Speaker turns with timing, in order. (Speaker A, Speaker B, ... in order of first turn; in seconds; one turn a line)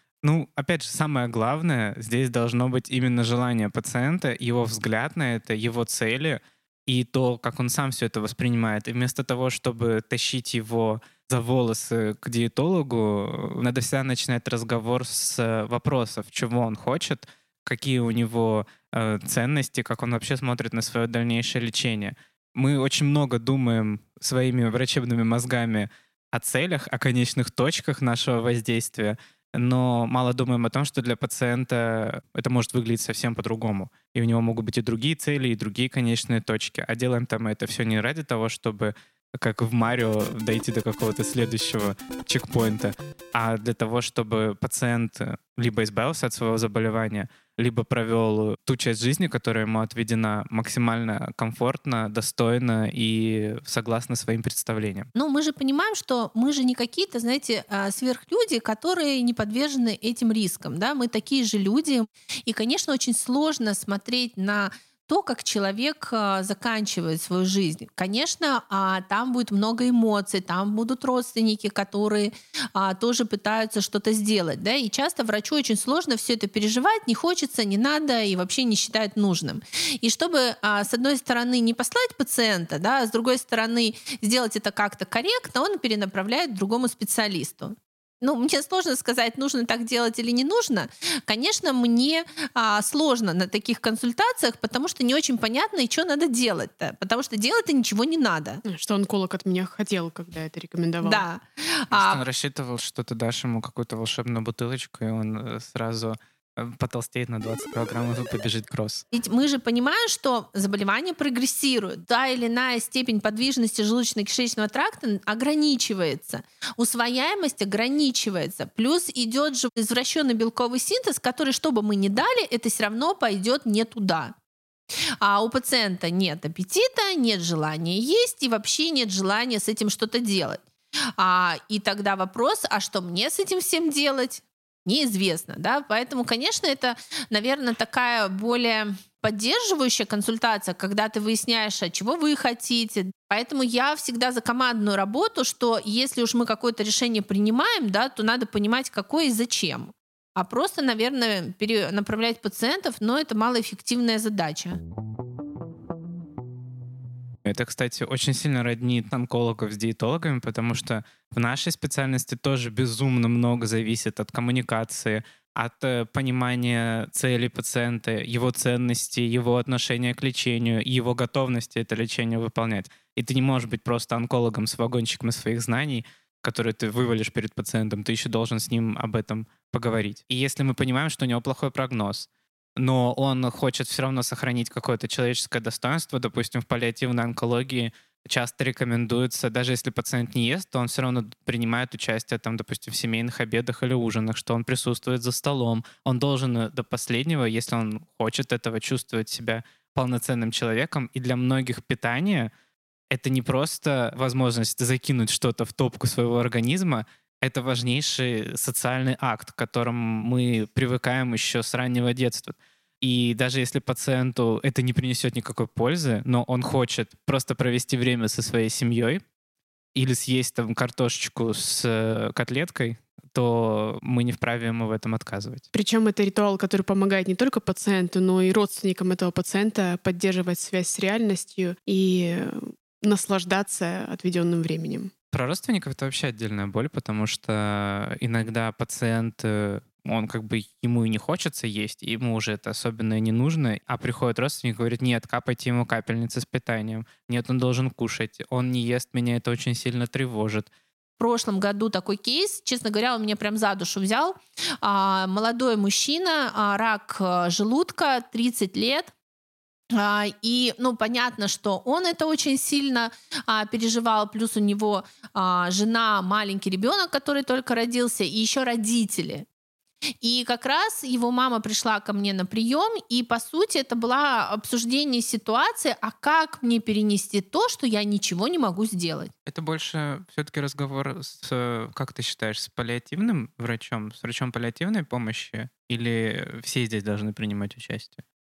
Speaker A: 0.2-55.1
Speaker B: 55.1-98.6
Speaker C: 98.7-101.2
Speaker B: 101.0-102.2
Speaker A: 101.9-109.0
Speaker B: 109.1-124.3
Speaker B: 125.2-130.6
Speaker B: 131.2-154.8
Speaker A: 157.4-202.5
Speaker A: 203.1-219.2
Speaker A: 219.9-225.7
Speaker C: 225.7-235.1
Speaker A: 235.3-250.7
Speaker B: 251.2-259.1
Speaker B: 259.9-269.4
Speaker B: 270.2-279.3
Speaker A: 279.4-288.2